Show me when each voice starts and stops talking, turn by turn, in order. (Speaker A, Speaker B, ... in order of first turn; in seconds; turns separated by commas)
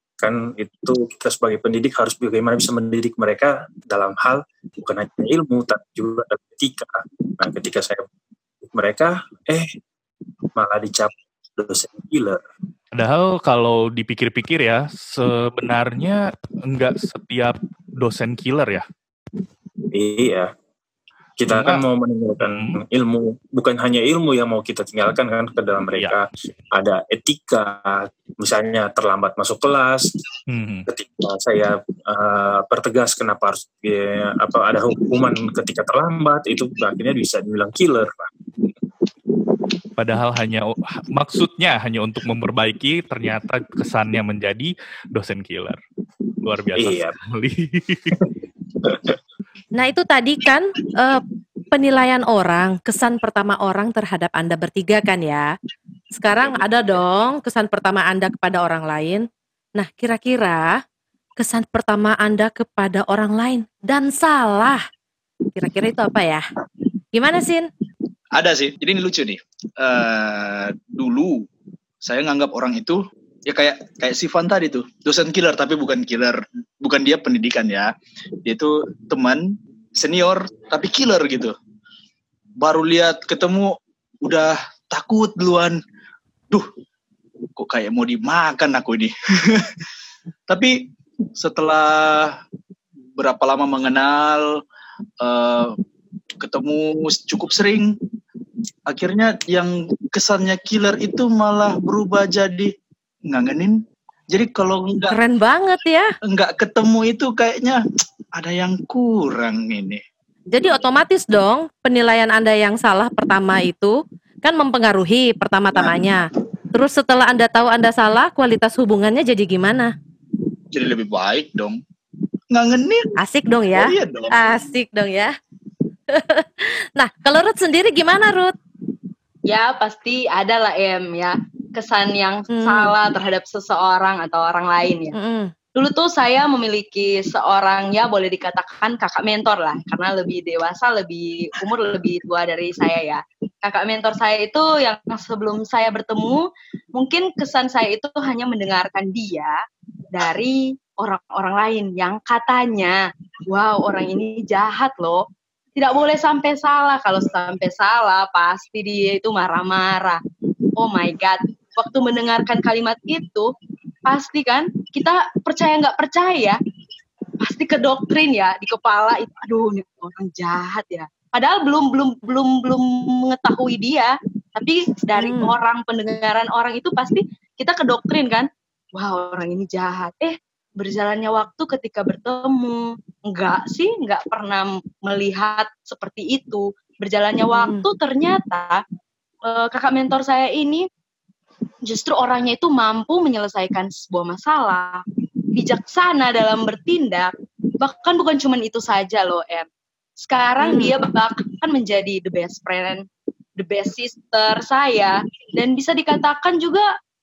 Speaker A: 0.2-8.0, Speaker A: 8.6-9.7, Speaker A: 10.6-12.4, Speaker B: 12.9-18.8, Speaker A: 19.9-20.5, Speaker A: 21.4-30.1, Speaker B: 21.5-21.8, Speaker B: 22.4-22.8, Speaker B: 30.5-30.9, Speaker A: 30.9-38.3, Speaker B: 40.0-45.8, Speaker B: 46.4-48.1, Speaker A: 46.8-47.2, Speaker A: 48.8-49.2, Speaker C: 49.7-51.2, Speaker C: 51.7-55.5, Speaker C: 56.1-60.7, Speaker C: 61.4-64.8, Speaker C: 65.5-66.4, Speaker C: 67.1-67.7, Speaker D: 68.3-71.5, Speaker D: 72.0-77.9, Speaker D: 78.5-79.4, Speaker D: 80.0-81.5, Speaker D: 82.6-85.8, Speaker D: 87.6-89.8, Speaker D: 90.5-92.4, Speaker D: 93.2-94.4, Speaker D: 95.2-95.7, Speaker D: 96.4-98.0, Speaker D: 98.9-102.7, Speaker D: 103.3-103.7, Speaker D: 104.3-105.2, Speaker C: 105.1-106.1, Speaker D: 106.3-107.8, Speaker D: 108.4-110.0, Speaker C: 110.5-119.9, Speaker D: 120.7-121.8, Speaker D: 122.5-123.1, Speaker C: 123.2-125.3, Speaker D: 123.7-124.6, Speaker C: 126.1-128.5, Speaker E: 129.5-135.1, Speaker C: 132.5-133.0, Speaker C: 135.1-135.5, Speaker E: 135.8-146.4, Speaker E: 146.9-149.5, Speaker E: 150.1-155.2, Speaker E: 155.8-160.2, Speaker E: 160.8-163.5, Speaker E: 164.1-166.6, Speaker E: 167.4-188.8, Speaker C: 175.2-175.6, Speaker C: 187.5-187.9, Speaker E: 189.5-190.8, Speaker E: 191.9-195.0, Speaker E: 195.6-199.7, Speaker E: 200.2-203.0, Speaker C: 200.6-201.0, Speaker E: 203.6-206.9